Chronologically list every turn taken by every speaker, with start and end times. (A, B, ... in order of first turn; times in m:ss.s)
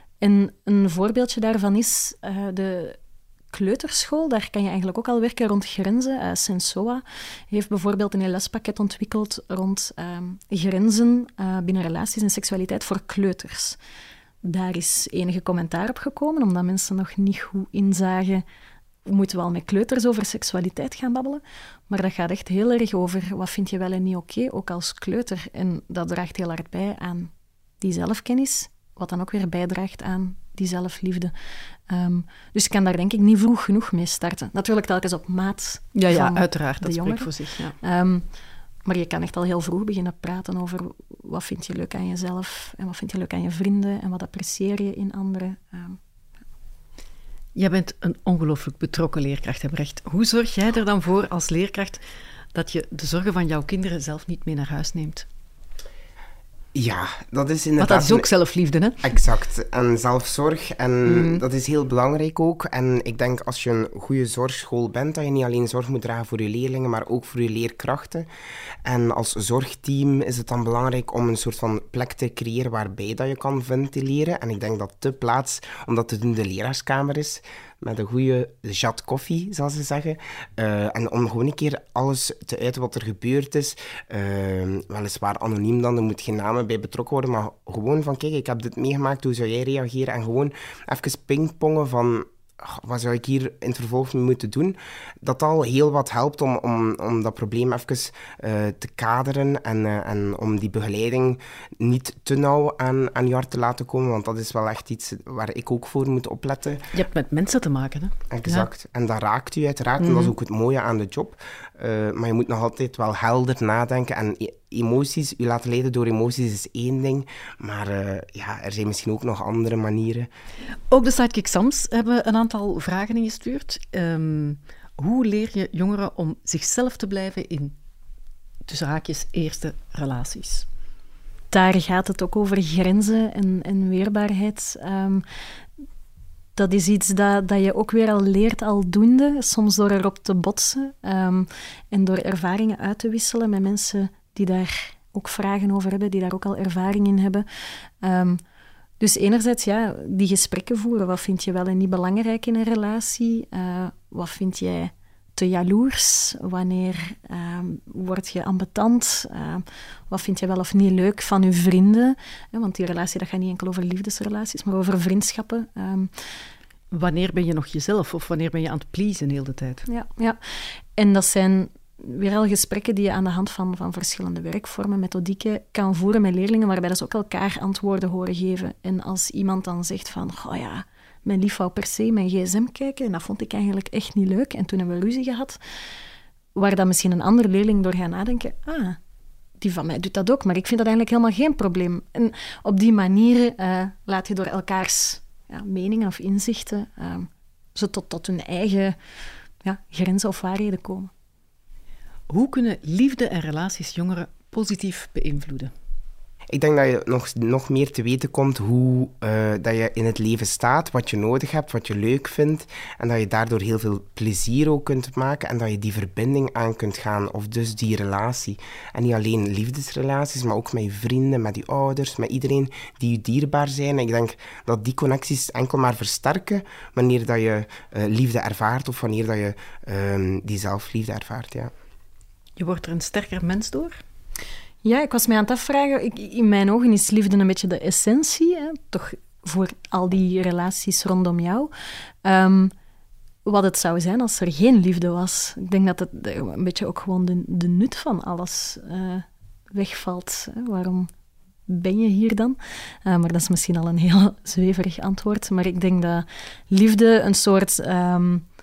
0:00.2-0:03.0 A
0:03.5-0:13.8 A
0:14.4-0:18.4 A
0:19.0-0:31.3 A
0:31.9-0:38.3 A
0:36.0-0:37.8 B
0:38.9-0:46.0 A
0:47.6-0:52.0 B
0:52.5-0:55.3 B
0:56.8-0:58.3 C
0:57.8-0:59.1 B
0:59.0-1:08.3 C
1:01.0-1:01.4 B
1:08.8-1:46.9 C
1:46.9-1:48.7 B
1:48.3-2:00.3 C
1:50.0-1:50.3 B
2:00.9-2:07.8 B
2:08.7-2:10.7 B
2:11.5-2:15.2 A
2:16.6-2:27.4 A
2:28.0-2:28.4 A
2:29.0-2:46.1 A
2:46.9-2:49.9 B
2:49.9-2:50.4 A
2:51.0-3:05.6 A
3:06.6-3:09.0 A
3:09.6-3:19.0 A
3:19.6-3:21.1 A
3:22.3-3:25.7 B
3:26.5-3:51.7 C
3:52.6-3:54.0 B
3:54.8-4:01.7 A
4:02.2-4:02.7 A
4:03.4-4:11.1 A
4:11.7-4:18.4 A